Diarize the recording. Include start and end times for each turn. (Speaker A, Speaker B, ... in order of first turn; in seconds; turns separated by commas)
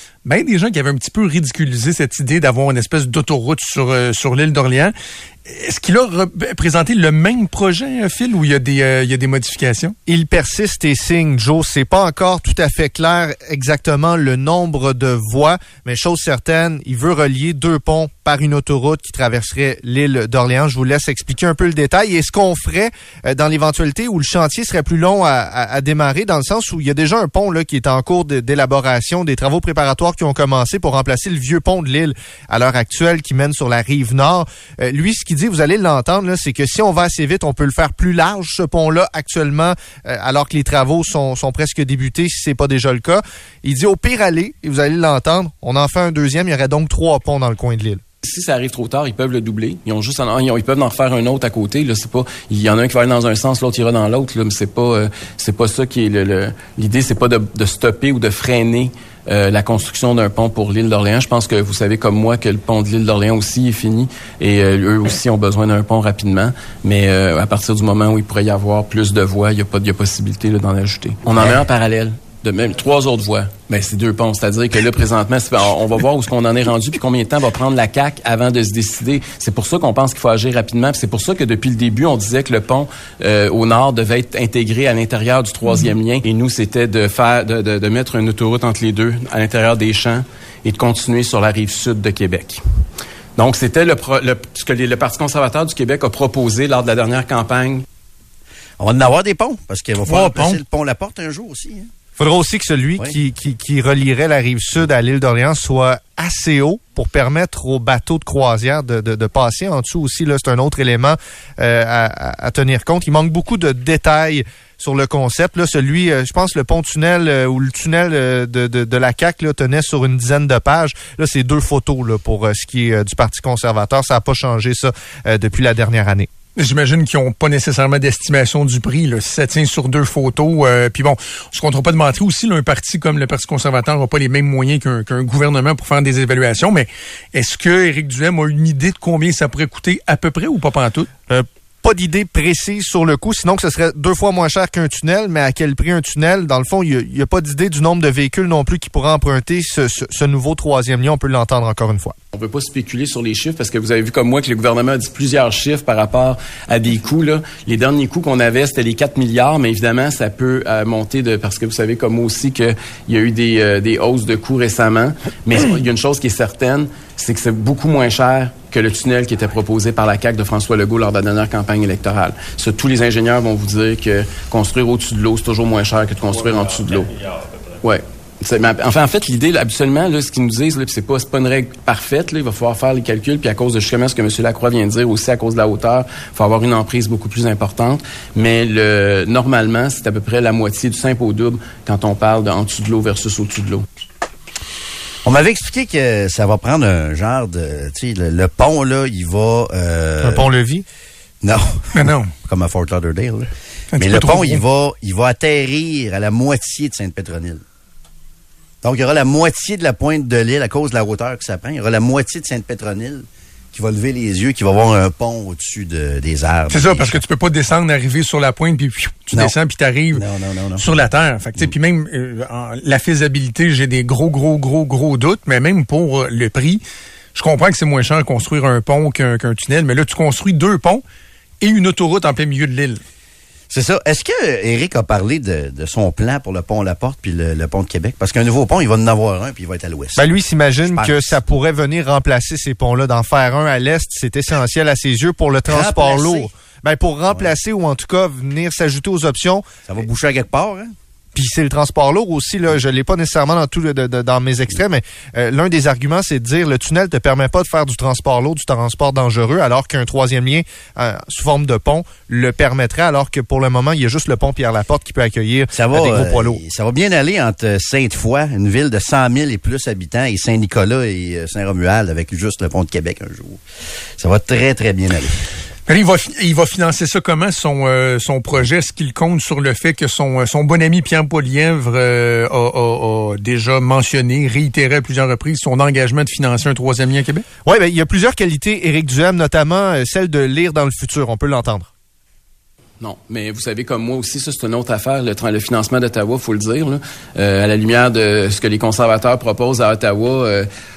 Speaker A: 0.2-4.9, Speaker A: 5.5-10.0, Speaker B: 10.1-48.0, Speaker C: 48.2-92.6, Speaker C: 93.4-97.8, Speaker D: 98.8-101.9, Speaker A: 100.1-100.6, Speaker B: 102.2-126.3, Speaker A: 126.6-141.1, Speaker B: 141.3-152.2, Speaker C: 152.3-177.1, Speaker C: 177.8-193.9, Speaker D: 195.2-200.5, Speaker B: 200.2-200.8, Speaker D: 201.4-207.6, Speaker A: 201.9-202.3, Speaker A: 203.9-204.6, Speaker D: 208.8-217.2, Speaker A: 216.7-220.2, Speaker D: 220.1-220.9, Speaker A: 220.8-226.8, Speaker A: 227.3-231.0, Speaker A: 231.6-233.0, Speaker D: 233.7-240.2, Speaker B: 240.2-249.7, Speaker D: 240.8-241.4, Speaker D: 245.7-246.5, Speaker D: 249.9-250.9, Speaker B: 251.3-266.6, Speaker D: 265.7-273.6, Speaker D: 274.2-275.4, Speaker A: 275.9-287.4, Speaker B: 287.7-291.9, Speaker C: 293.0-300.7